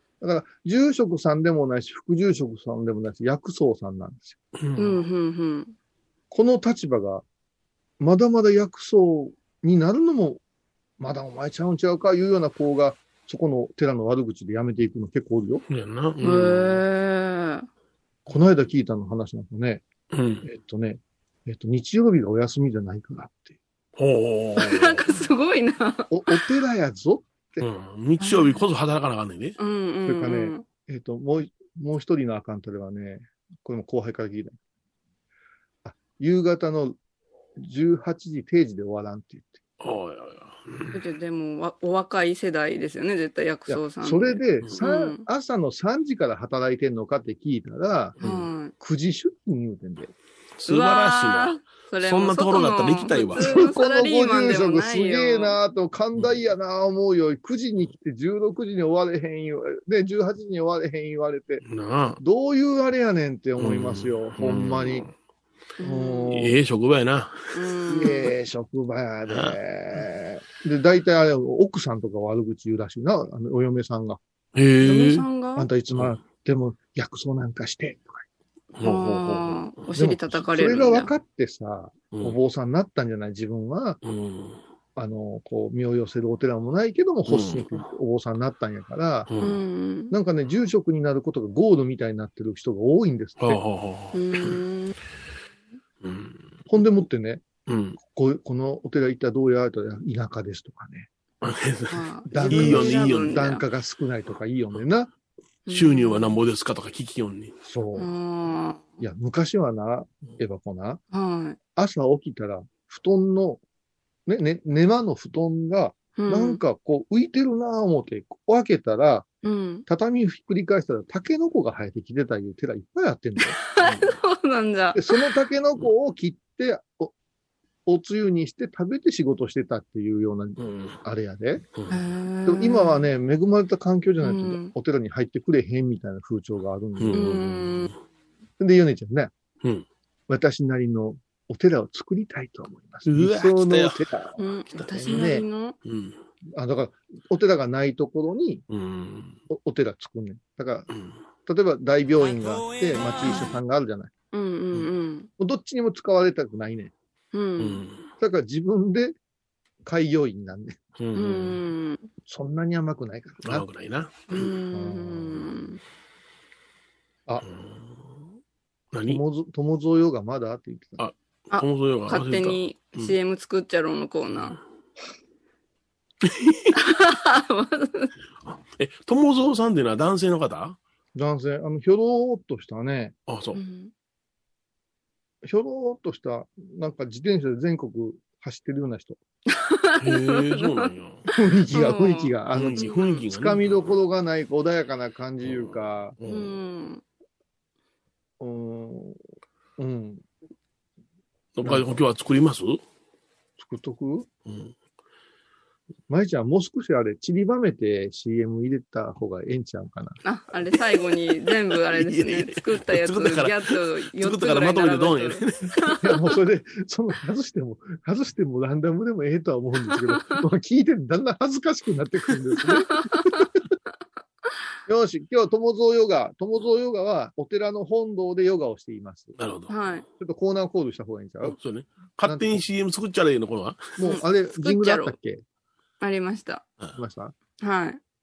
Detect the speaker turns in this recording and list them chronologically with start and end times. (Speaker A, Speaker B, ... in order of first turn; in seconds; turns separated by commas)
Speaker A: 0.2-4.4, Speaker B: 4.6-5.0, Speaker C: 4.8-5.7, Speaker A: 6.3-7.2, Speaker A: 8.0-10.4, Speaker A: 11.0-15.6, Speaker B: 15.7-16.8, Speaker C: 16.2-17.7, Speaker A: 18.3-19.8, Speaker B: 20.1-20.4, Speaker A: 20.4-23.6, Speaker B: 24.0-25.0, Speaker C: 24.6-26.4, Speaker A: 26.1-27.6, Speaker B: 27.6-29.6, Speaker C: 28.2-28.6, Speaker C: 29.6-30.6, Speaker A: 30.1-34.5, Speaker A: 35.8-37.0, Speaker A: 37.6-39.6, Speaker B: 39.8-41.0, Speaker C: 40.9-45.2, Speaker A: 43.7-48.2, Speaker B: 48.2-48.5, Speaker C: 48.2-48.7, Speaker A: 48.8-50.1, Speaker B: 50.6-53.5, Speaker C: 50.6-55.6, Speaker A: 53.4-61.6, Speaker B: 61.6-62.2, Speaker A: 62.2-65.1, Speaker B: 63.6-65.1, Speaker C: 65.8-66.3, Speaker A: 65.8-66.6, Speaker B: 66.3-68.1, Speaker C: 67.5-68.3, Speaker A: 67.9-74.2, Speaker B: 69.3-70.0, Speaker B: 74.5-75.2, Speaker C: 74.8-75.7, Speaker A: 75.5-78.2, Speaker B: 78.8-79.6, Speaker C: 78.8-81.1, Speaker A: 79.9-84.0, Speaker B: 84.0-84.6, Speaker A: 85.0-89.3, Speaker B: 87.3-87.8, Speaker B: 89.3-89.6, Speaker C: 89.4-90.1, Speaker A: 90.1-93.6, Speaker B: 93.4-94.6, Speaker C: 94.1-94.9, Speaker B: 96.0-96.5, Speaker A: 96.7-97.4, Speaker B: 97.7-98.0, Speaker A: 98.0-101.1, Speaker B: 101.4-103.4, Speaker C: 101.9-103.6, Speaker A: 102.3-105.1, Speaker C: 105.7-106.3, Speaker B: 105.7-107.5, Speaker A: 107.6-108.1, Speaker C: 108.0-109.0, Speaker A: 109.0-111.0, Speaker C: 111.1-111.6, Speaker A: 111.8-113.6, Speaker A: 114.2-119.3, Speaker C: 116.2-116.6, Speaker C: 119.4-119.8, Speaker A: 119.9-123.6, Speaker C: 123.4-125.2, Speaker B: 123.8-124.1, Speaker A: 124.9-127.1, Speaker A: 127.8-131.7, Speaker B: 130.6-131.0, Speaker C: 131.9-133.0, Speaker A: 132.4-137.3, Speaker C: 134.2-134.7, Speaker B: 137.0-137.9, Speaker C: 137.1-137.9, Speaker A: 138.6-139.3, Speaker A: 140.3-144.4, Speaker B: 143.0-144.0, Speaker C: 144.4-145.8, Speaker A: 144.9-145.4, Speaker B: 145.8-146.2, Speaker A: 146.5-148.6, Speaker B: 148.7-149.4, Speaker A: 149.5-150.9, Speaker A: 151.4-154.1, Speaker C: 154.3-155.3, Speaker A: 155.4-156.9, Speaker C: 157.3-157.8, Speaker B: 157.6-158.0, Speaker A: 158.2-159.2, Speaker A: 159.8-160.8, Speaker B: 161.0-161.6, Speaker C: 161.1-162.1, Speaker A: 162.2-163.7, Speaker B: 163.4-164.5, Speaker C: 164.3-165.8, Speaker A: 164.7-165.5, Speaker B: 167.4-167.9, Speaker B: 168.9-169.2, Speaker A: 169.1-171.0, Speaker B: 171.0-173.1, Speaker C: 171.5-174.6, Speaker B: 176.2-176.7, Speaker C: 176.7-178.1, Speaker B: 178.7-180.8, Speaker A: 181.1-183.1, Speaker B: 183.3-183.6, Speaker C: 183.5-183.9, Speaker A: 185.4-189.2, Speaker C: 189.5-190.9, Speaker B: 190.0-191.2, Speaker A: 191.3-196.2, Speaker C: 191.7-193.2, Speaker B: 192.5-193.9, Speaker B: 195.4-196.5, Speaker C: 196.2-197.0, Speaker A: 198.4-199.2, Speaker A: 199.8-200.2, Speaker B: 201.5-202.8, Speaker A: 201.6-202.0, Speaker A: 203.6-204.3, Speaker B: 204.4-204.7, Speaker A: 206.1-210.2, Speaker C: 210.2-216.0, Speaker B: 211.9-215.9, Speaker A: 216.0-223.4, Speaker C: 222.7-223.5, Speaker A: 224.9-229.3, Speaker B: 229.4-229.7, Speaker C: 229.7-230.0, Speaker A: 230.2-231.6, Speaker B: 231.4-233.9, Speaker A: 232.2-232.6, Speaker A: 234.0-235.4, Speaker C: 234.0-235.1, Speaker C: 236.0-236.6, Speaker A: 236.9-237.3, Speaker C: 237.6-238.0